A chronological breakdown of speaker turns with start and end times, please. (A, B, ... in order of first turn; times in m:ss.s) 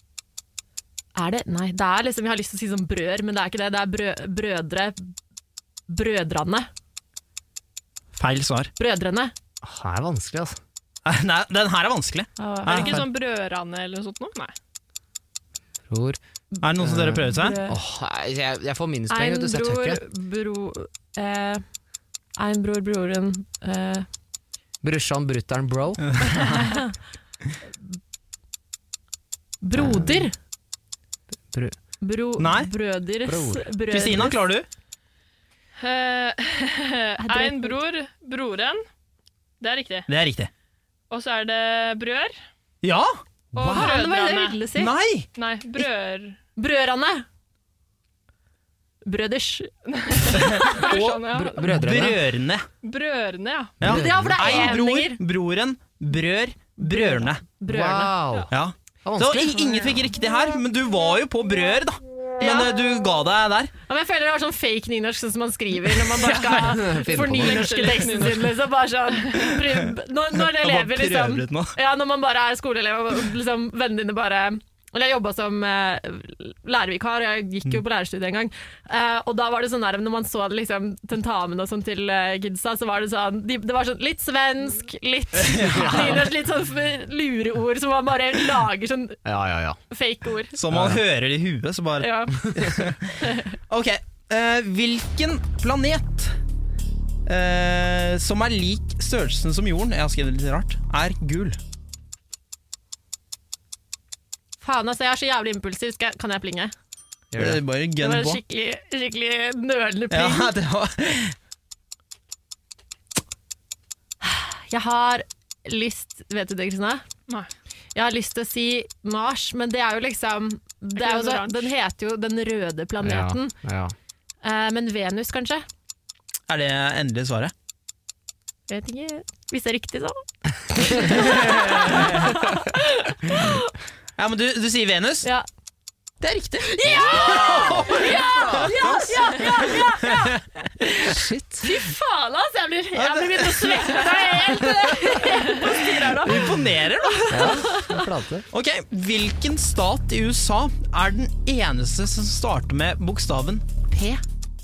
0:01.2-0:05.1 A
0:05.9-0:06.7 A
0:08.2-0:08.7 B
0:08.8-0:09.3 A
0:09.6-0:10.6 C
0:11.0-0:13.1 B
0:12.4-0:13.0 A
0:12.7-0:14.5 D
0:15.9-0:16.2 C
0:16.5-0:17.8 A
0:16.6-0:17.6 B
0:16.8-0:20.0 C
0:19.1-0:21.6 A
0:22.4-0:24.1 A
0:24.8-0:26.2 C
0:26.1-0:26.8 B
0:29.6-0:30.3 A
0:29.8-0:30.3 C
0:31.5-0:31.8 C
0:32.0-0:34.4 A
0:32.4-0:32.7 B
0:33.3-0:33.7 C
0:33.9-0:34.7 B
0:35.8-0:38.8 D
0:37.2-0:37.8 A
0:39.6-0:40.1 D
0:40.1-0:40.5 B
0:41.1-0:42.4 D
0:42.8-0:43.2 B
0:43.5-0:44.6 D
0:43.6-0:44.9 A
0:44.7-0:45.3 B
0:45.4-0:46.4 D
0:46.6-0:47.2 A
0:49.0-0:50.9 A
0:49.9-0:51.7 D
0:50.3-0:52.7 B
0:51.3-0:52.2 C
0:52.8-0:53.8 D
0:53.8-0:57.4 B
0:53.8-0:54.8 C
0:53.8-0:55.2 A
0:56.8-0:58.2 A
0:57.7-0:58.5 C
0:58.5-1:03.7 B
0:59.0-0:59.9 C
1:02.4-1:02.7 A
1:03.9-1:29.2 A
1:06.1-1:06.8 B
1:06.5-1:07.7 C
1:07.3-1:08.6 D
1:09.2-1:09.5 D
1:10.4-1:11.8 B
1:25.4-1:26.2 B
1:25.7-1:26.2 C
1:29.2-1:29.8 C
1:29.9-1:30.6 A
1:30.6-1:36.4 B
1:30.7-1:31.0 C
1:32.0-1:32.7 A
1:33.2-1:33.5 A
1:37.3-1:41.6 B
1:44.6-1:46.7 A
1:47.3-1:47.6 C
1:47.4-1:48.4 B
1:48.0-1:50.5 A
1:50.1-1:51.4 B
1:54.2-1:57.0 A
1:58.0-2:03.6 A
2:01.0-2:01.7 D
2:03.0-2:03.9 C
2:04.4-2:05.6 A
2:06.5-2:07.5 B
2:08.7-2:13.7 A
2:11.0-2:12.4 B
2:14.2-2:15.3 B
2:16.2-2:17.8 B
2:16.6-2:28.0 A
2:16.8-2:19.2 C
2:18.8-2:20.1 B
2:21.0-2:21.8 C
2:23.0-2:24.0 B
2:25.5-2:27.8 B
2:27.3-2:28.5 C
2:28.5-2:33.7 B
2:33.9-2:34.2 C